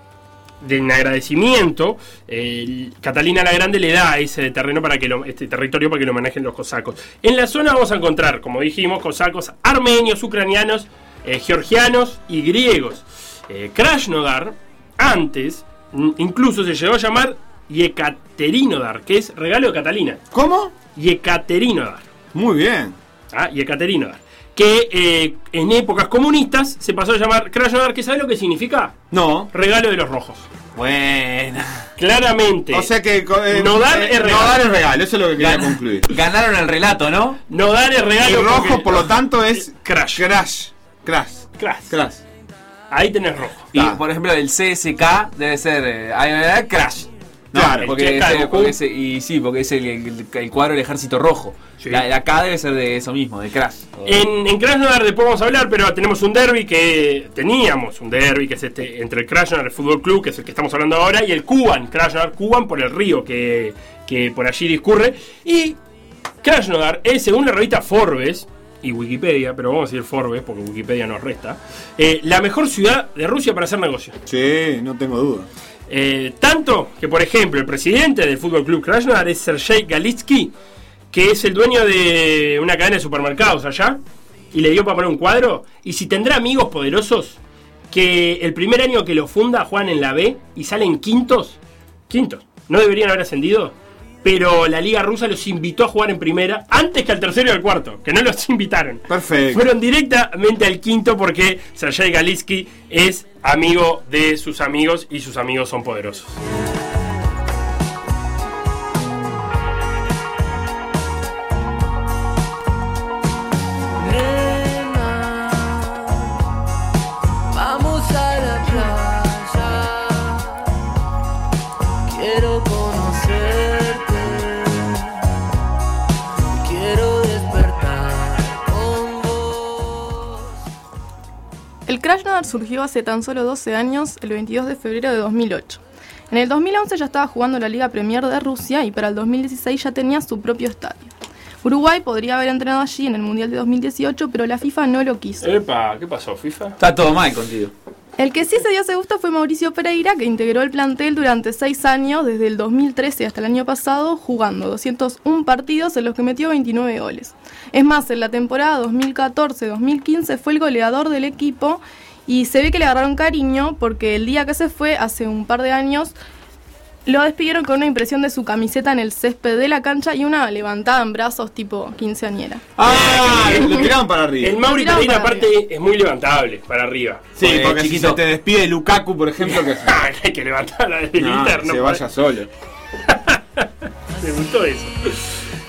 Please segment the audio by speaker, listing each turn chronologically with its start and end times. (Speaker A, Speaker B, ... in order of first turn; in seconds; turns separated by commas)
Speaker A: 0.6-20.2, Speaker B: 20.3-20.7, Speaker A: 20.9-22.0, Speaker B: 22.3-22.9, Speaker A: 23.3-28.9, Speaker B: 29.1-29.5, Speaker A: 29.5-30.5, Speaker C: 30.8-31.8, Speaker A: 32.0-32.9, Speaker B: 32.7-36.1, Speaker A: 33.5-34.6, Speaker C: 35.4-37.4, Speaker A: 37.5-40.2, Speaker B: 38.2-42.2, Speaker A: 41.6-41.9, Speaker A: 42.9-43.7, Speaker C: 43.7-54.2, Speaker B: 43.7-44.0, Speaker B: 47.5-47.9, Speaker A: 47.8-48.8, Speaker A: 54.0-65.8, Speaker A: 66.4-74.2, Speaker B: 74.3-75.5, Speaker A: 75.9-80.5, Speaker A: 81.1-84.0, Speaker A: 84.5-87.4, Speaker A: 87.9-91.6, Speaker A: 92.1-106.4, Speaker B: 99.1-99.7, Speaker D: 114.0-116.3, Speaker D: 117.5-120.7, Speaker D: 122.1-125.1, Speaker D: 126.5-130.3, Speaker E: 131.9-141.1, Speaker E: 141.6-145.5, Speaker A: 145.4-146.8, Speaker C: 146.8-147.7, Speaker E: 148.2-166.1, Speaker E: 167.1-172.7, Speaker B: 172.8-174.6, Speaker A: 172.8-177.2, Speaker E: 173.4-173.9, Speaker E: 174.7-175.5, Speaker B: 177.3-180.0, Speaker C: 177.4-178.2, Speaker A: 179.5-182.0, Speaker B: 181.2-182.5, Speaker A: 183.1-185.2